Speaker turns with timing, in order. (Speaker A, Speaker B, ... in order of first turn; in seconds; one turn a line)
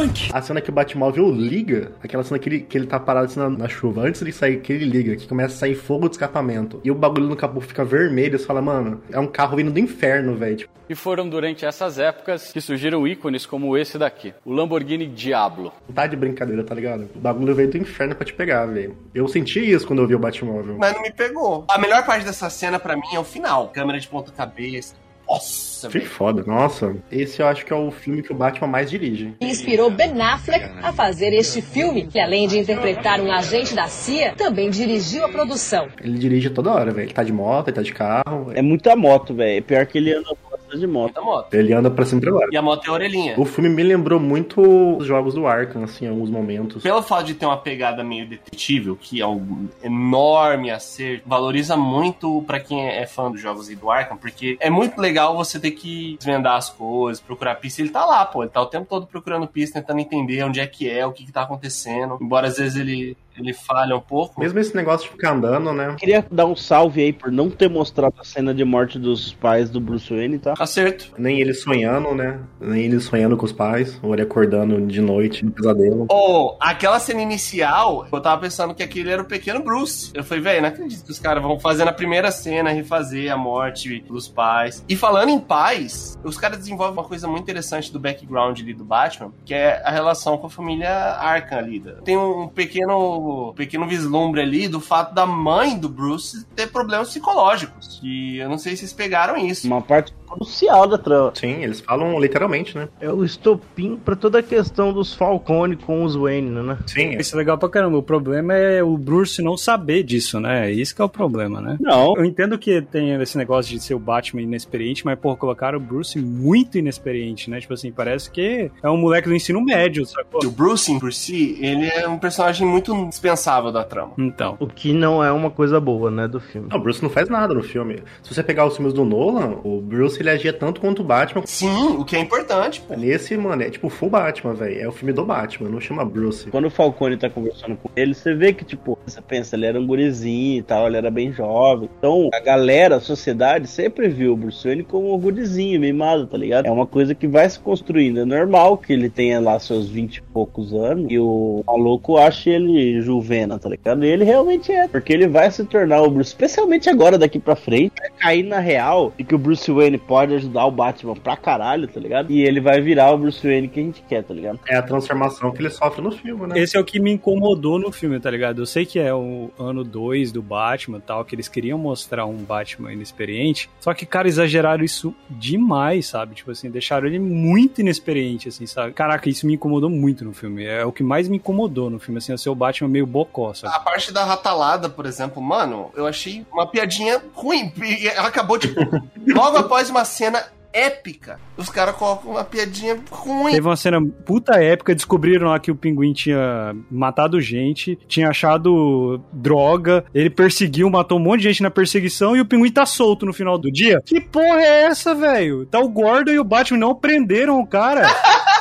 Speaker A: 0.3-10.7
Speaker B: 10.9-15.7
Speaker A: 15.9-20.8
Speaker C: 20.8-26.1
Speaker A: 25.9-29.4
Speaker D: 29.4-35.9
Speaker A: 36.0-38.6
Speaker E: 38.5-41.1
Speaker C: 41.0-41.5
Speaker A: 41.5-42.6
Speaker C: 42.5-43.4
Speaker A: 43.4-46.9
Speaker C: 46.8-64.5
Speaker A: 64.4-66.0
Speaker E: 66.0-70.6
Speaker C: 70.6-71.1
Speaker A: 71.2-76.1
Speaker C: 76.1-99.7
Speaker E: 99.6-101.3
Speaker A: 101.3-102.9
Speaker E: 103.0-106.8
Speaker A: 106.9-107.2
Speaker F: 107.2-120.5
Speaker E: 111.8-112.2
Speaker C: 120.4-124.2
Speaker F: 124.2-124.6
Speaker E: 124.6-126.7
Speaker A: 126.7-131.5
Speaker C: 131.5-133.0
Speaker A: 132.9-136.5
Speaker E: 136.5-164.6
Speaker A: 164.7-166.7
Speaker F: 166.5-183.8
Speaker C: 183.7-193.6
Speaker F: 193.5-208.2